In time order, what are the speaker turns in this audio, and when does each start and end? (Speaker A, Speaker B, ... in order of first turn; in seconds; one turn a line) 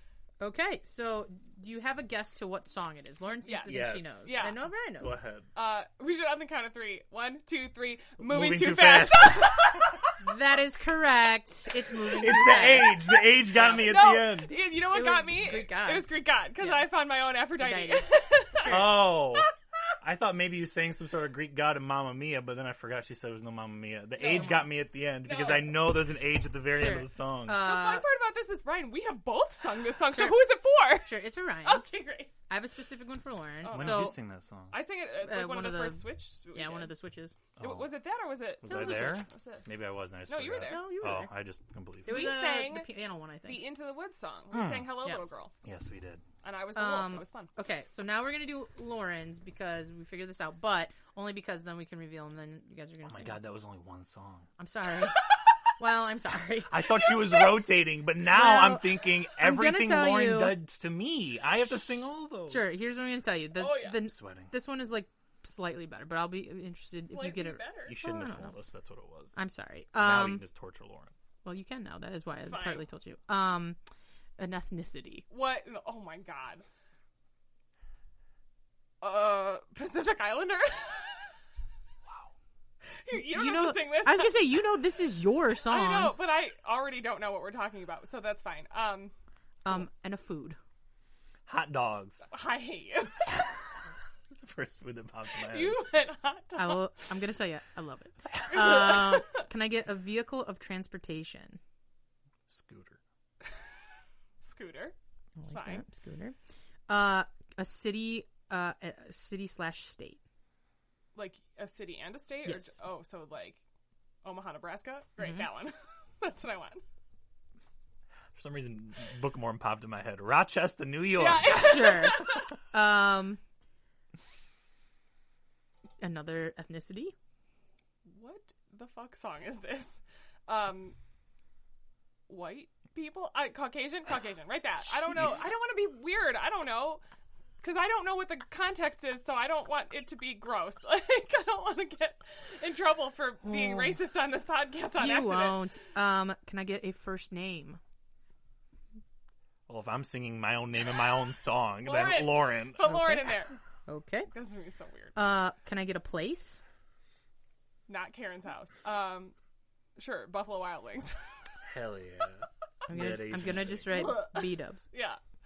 Speaker A: 0.4-5.2
Speaker B: 3.4-4.6
Speaker C: 3.7-4.4
Speaker C: 5.0-5.5
Speaker B: 5.5-10.1
Speaker C: 8.2-10.0
Speaker A: 10.2-13.0
Speaker C: 12.0-14.6
Speaker B: 13.5-19.5
Speaker A: 14.8-16.9
Speaker A: 17.6-19.0
Speaker C: 18.6-27.7
Speaker B: 24.2-24.7
Speaker A: 24.2-24.7
Speaker B: 25.2-25.8
Speaker A: 26.7-28.1
Speaker B: 27.5-32.3
Speaker A: 30.1-30.4
Speaker A: 31.0-31.9
Speaker A: 32.5-34.2
Speaker B: 33.6-34.2
Speaker C: 33.7-34.8
Speaker B: 34.7-37.0
Speaker A: 35.2-37.4
Speaker C: 37.6-38.0
Speaker B: 37.6-41.0
Speaker C: 38.6-42.4
Speaker A: 40.7-41.4
Speaker B: 42.0-42.9
Speaker A: 42.0-43.7
Speaker B: 43.4-45.5
Speaker C: 44.5-45.0
Speaker C: 45.6-46.2
Speaker B: 46.4-47.5
Speaker A: 46.8-53.4
Speaker C: 53.1-54.5
Speaker A: 54.6-57.0
Speaker B: 55.2-55.5
Speaker C: 56.7-62.7
Speaker A: 58.3-60.6
Speaker A: 62.5-68.6
Speaker B: 63.5-64.0
Speaker C: 64.0-64.5
Speaker B: 67.1-68.0
Speaker C: 67.9-69.4
Speaker A: 69.4-70.4
Speaker C: 70.0-71.1
Speaker A: 71.5-73.8
Speaker B: 72.3-72.8
Speaker A: 74.4-75.3
Speaker B: 75.3-76.7
Speaker B: 79.0-81.4
Speaker B: 82.8-84.6
Speaker A: 83.1-86.2
Speaker B: 85.6-89.1
Speaker A: 89.7-90.6
Speaker C: 91.5-92.2
Speaker B: 92.3-93.3
Speaker C: 94.3-95.8
Speaker B: 95.3-96.9
Speaker A: 96.6-101.6
Speaker B: 98.4-99.4
Speaker C: 102.5-103.0
Speaker B: 104.4-105.0
Speaker A: 105.4-106.4
Speaker B: 105.5-105.8
Speaker A: 106.9-110.2
Speaker B: 111.2-113.6
Speaker A: 112.5-112.8
Speaker B: 114.2-116.8
Speaker A: 115.2-115.5
Speaker C: 118.3-121.9
Speaker B: 121.1-122.5
Speaker A: 121.5-123.4
Speaker A: 126.0-127.2
Speaker B: 128.1-131.0
Speaker B: 132.3-137.0
Speaker C: 135.2-135.4
Speaker B: 137.6-145.6
Speaker A: 143.4-144.0
Speaker A: 145.0-147.8
Speaker C: 149.7-153.0
Speaker B: 151.8-153.6
Speaker A: 152.8-153.3
Speaker A: 153.9-154.3
Speaker B: 154.3-155.2
Speaker A: 155.2-156.6
Speaker B: 157.9-159.3
Speaker B: 160.0-161.2
Speaker C: 161.7-164.2
Speaker A: 162.9-164.9
Speaker B: 163.9-165.2